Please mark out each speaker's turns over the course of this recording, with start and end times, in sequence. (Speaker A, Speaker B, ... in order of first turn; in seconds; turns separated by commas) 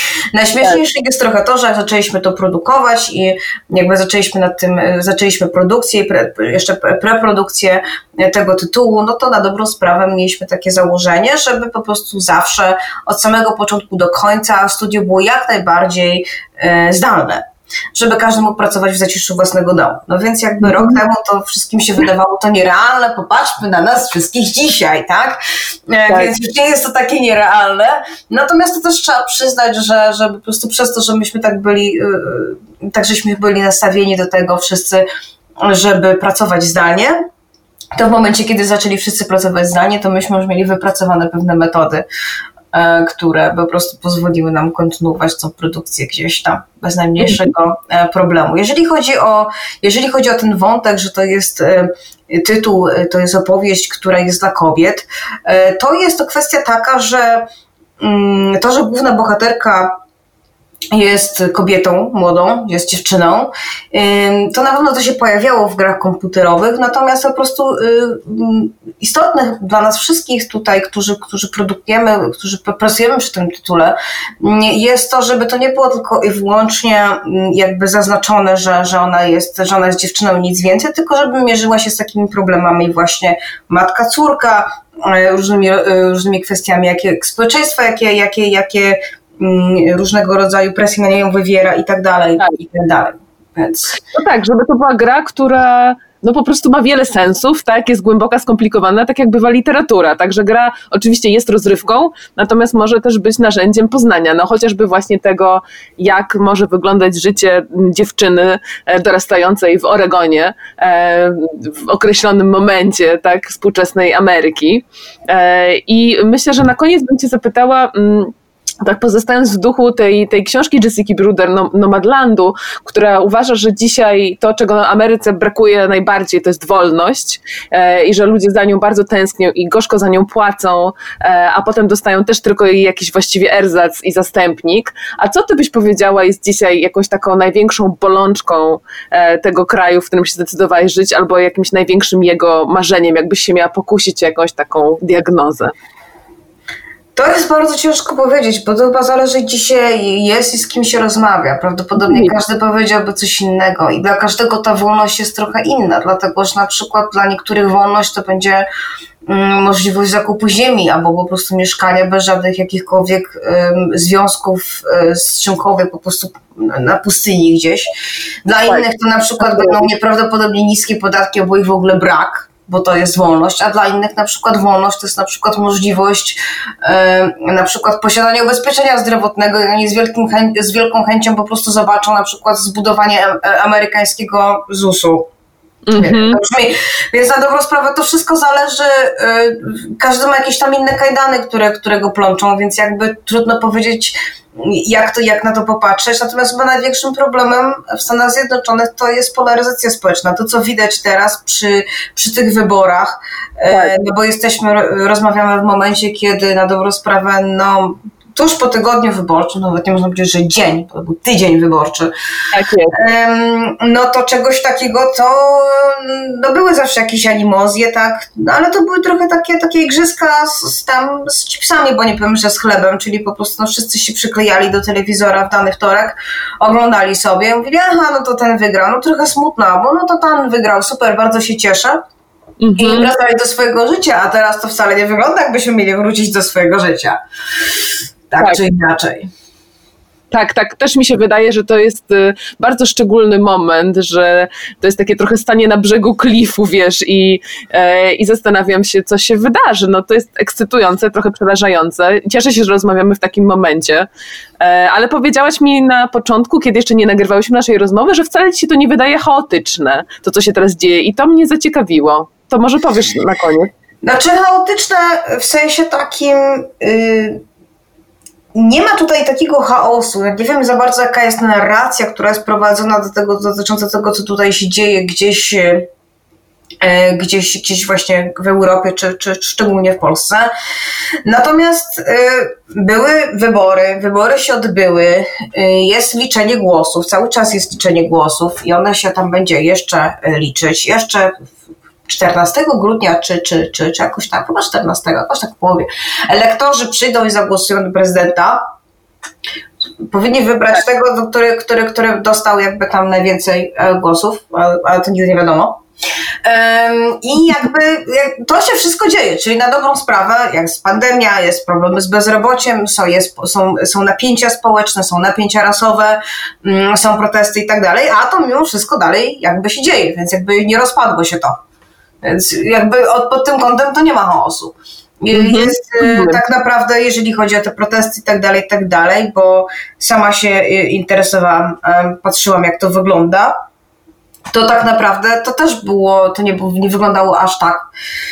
Speaker A: 0.3-35.1, Speaker B: 20.6-21.0, Speaker A: 35.6-37.3, Speaker A: 38.0-42.0, Speaker A: 42.7-57.5, Speaker B: 47.2-47.5, Speaker A: 58.0-60.0, Speaker A: 60.9-94.0, Speaker B: 94.0-145.7, Speaker A: 147.2-158.7, Speaker B: 152.0-152.3, Speaker A: 159.2-167.9, Speaker A: 168.4-185.3, Speaker B: 169.4-169.8, Speaker B: 185.9-186.4, Speaker A: 186.0-212.1, Speaker B: 203.7-203.9, Speaker B: 212.5-212.9, Speaker A: 212.9-232.0, Speaker B: 232.6-233.1, Speaker A: 232.8-237.2, Speaker A: 238.3-239.3, Speaker B: 240.3-254.1, Speaker B: 254.6-263.7, Speaker A: 264.0-267.4, Speaker A: 268.5-275.9, Speaker A: 276.8-280.5, Speaker A: 281.2-291.5, Speaker A: 292.1-298.7, Speaker A: 300.0-305.8, Speaker A: 306.4-321.6, Speaker A: 322.2-333.5, Speaker B: 325.3-326.4, Speaker A: 334.5-337.9